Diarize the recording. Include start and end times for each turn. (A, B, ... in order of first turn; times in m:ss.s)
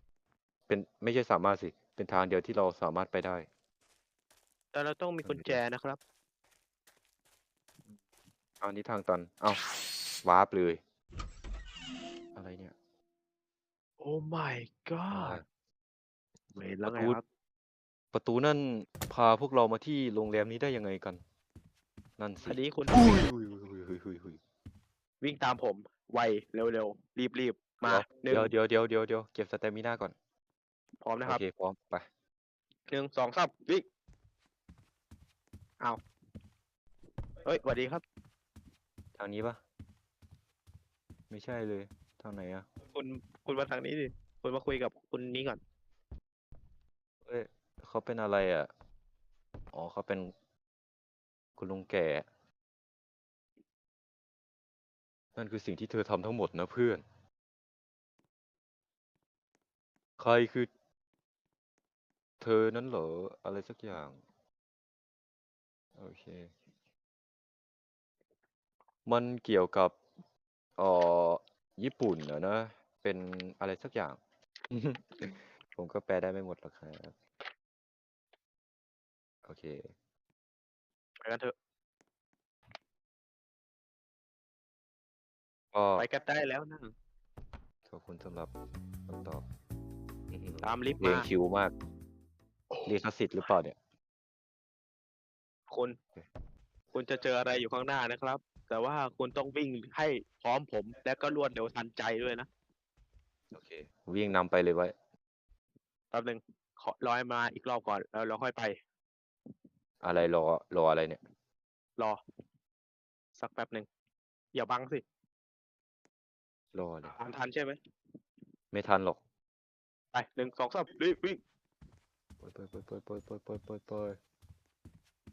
0:00.7-0:03.5 A
0:04.7-0:06.0 B
0:05.2-0:05.6 A
0:08.6-0:09.6 A
0:10.2-0:10.8 A
0:12.3-0:12.7 A
0:14.0-0:15.4 B
0:15.1-0:15.4 A
0:16.5-0:17.2 B
0:16.8-0:17.2 A
0:18.1-0:21.2 A
0:22.2-0:24.4 A
0:22.4-0:23.2 B
0:25.2-0:28.5 B
0:27.8-0:30.1 A
0:31.0-0:31.4 B
0:31.2-0:32.1 A
0:32.9-0:33.8 B
0:37.4-0:38.0 B
0:39.2-0:39.6 A
0:41.3-0:42.6 A
0:42.9-0:45.6 B
0:47.2-0:48.7 A
0:49.7-0:50.3 A
0:51.6-0:52.2 A
0:55.4-0:57.0 A
1:00.2-1:00.7 A
1:02.4-1:04.2 A
1:06.0-1:06.5 A
1:09.0-1:10.0 A
1:10.8-1:14.2 A
1:14.7-1:17.1 A
1:19.4-1:19.9 A
1:21.2-1:21.5 B
1:25.7-1:26.1 A
1:26.0-1:26.9 B
1:27.9-1:28.5 A
1:29.1-1:29.4 A
1:30.3-1:31.7 A
1:30.6-1:31.3 B
1:32.8-1:33.8 A
1:35.7-1:35.9 B
1:36.9-1:42.5 B
1:43.5-1:44.9 A
1:46.1-1:48.8 B
1:50.0-1:51.2 A
1:53.4-1:53.9 B
1:54.5-1:55.0 B
1:56.7-1:57.1 A
1:57.1-1:57.8 B
1:58.7-1:59.2 A
2:00.1-2:01.4 B
2:02.4-2:04.2 A